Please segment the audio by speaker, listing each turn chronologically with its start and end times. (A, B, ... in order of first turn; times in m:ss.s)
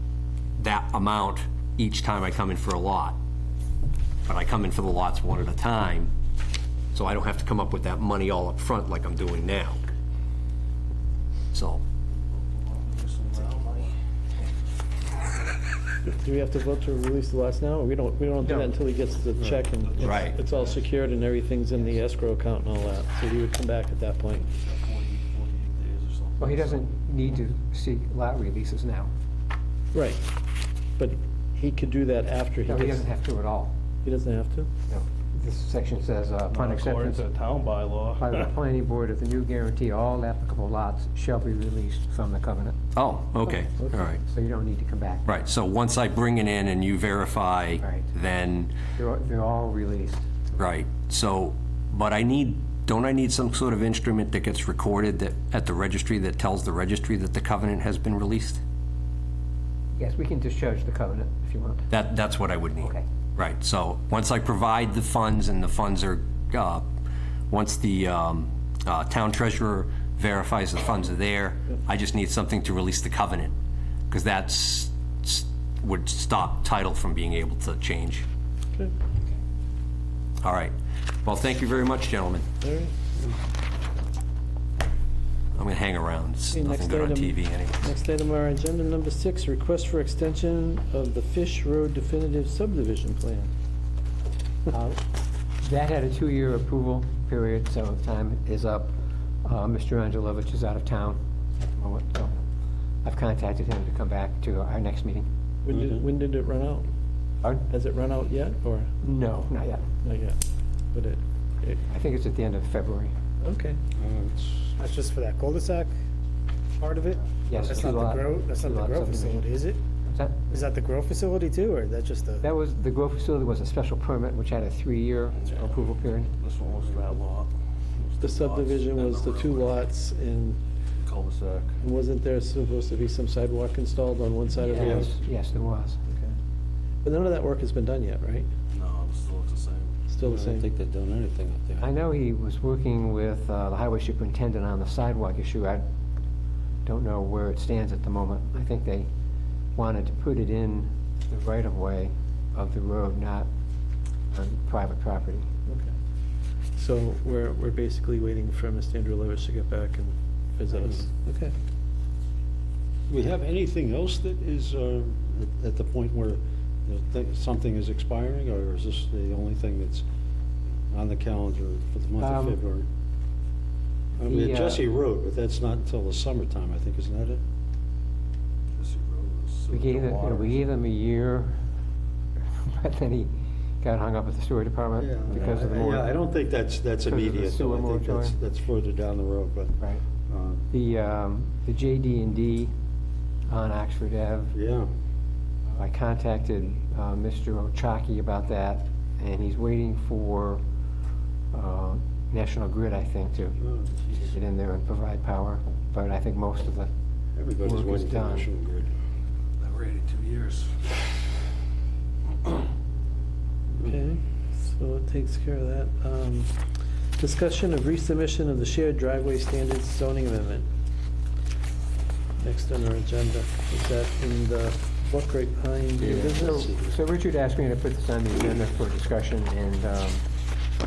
0:00.6-0:03.2 A
0:04.2-0:06.1 A
0:06.9-0:09.8 A
0:11.5-0:11.8 A
0:12.6-0:13.9 B
0:16.1-0:24.5 C
0:18.4-0:18.7 D
0:19.9-0:20.8 B
0:20.0-0:20.4 A
0:24.6-0:26.8 B
0:26.4-0:29.1 D
0:29.9-0:30.2 C
0:31.0-0:33.0 C
0:32.6-0:33.7 D
0:34.0-0:34.7 C
0:34.9-0:37.2 D
0:36.5-0:38.5 B
0:38.2-0:42.8 D
0:42.9-0:44.2 A
0:44.2-0:45.3 D
0:45.2-0:48.7 A
0:47.8-0:48.1 D
0:49.0-0:50.4 D
0:50.5-0:58.6 A
1:00.0-1:01.9 D
1:01.9-1:06.8 A
1:07.5-1:13.5 A
1:14.1-1:18.2 A
1:20.4-1:22.4 A
1:22.6-1:22.9 C
1:25.5-1:27.8 A
1:26.5-1:33.5 C
1:34.7-1:35.0 D
1:35.6-1:42.3 D
1:43.0-1:45.3 D
1:45.6-1:46.9 C
1:45.7-1:46.0 E
1:47.7-1:48.9 C
1:49.0-1:49.8 D
1:50.0-1:50.4 C
1:50.9-1:51.8 C
1:51.9-1:53.1 D
1:53.4-1:53.8 C
1:54.0-1:54.7 E
1:54.8-1:55.9 F
1:56.8-1:59.8 F
1:57.5-1:59.5 D
2:00.1-2:00.4 D
2:00.5-2:02.5 F
2:02.4-2:06.3 D
2:06.4-2:07.5 B
2:08.0-2:09.8 B
2:08.2-2:10.6 C
2:11.0-2:11.8 B
2:11.8-2:15.1 C
2:14.6-2:16.0 D
2:14.8-2:15.1 E
2:16.1-2:16.3 C
2:17.0-2:18.5 C
2:18.7-2:20.0 B
2:20.1-2:20.6 C
2:20.2-2:21.9 E
2:21.8-2:25.8 D
2:26.8-2:29.1 D
2:29.7-2:33.5 D
2:34.3-2:35.5 D
2:35.7-2:35.9 C
2:36.8-2:41.5 C
2:43.1-2:50.0 E
2:50.9-2:52.8 E
2:52.2-2:52.6 D
2:54.2-2:57.4 E
2:54.2-2:54.8 D
2:58.8-3:00.7 B
2:59.7-3:01.6 D
3:02.4-3:06.1 D
3:05.0-3:10.7 E
3:07.1-3:08.3 D
3:10.7-3:12.7 D
3:13.5-3:14.5 D
3:14.5-3:14.9 E
3:15.7-3:20.6 D
3:21.5-3:26.9 D
3:23.6-3:24.0 E
3:27.4-3:28.9 E
3:27.6-3:28.5 D
3:29.6-3:30.8 B
3:33.7-3:36.5 C
3:37.2-3:40.7 C
3:42.4-3:46.6 C
3:46.0-3:50.2 D
3:46.0-3:47.0 E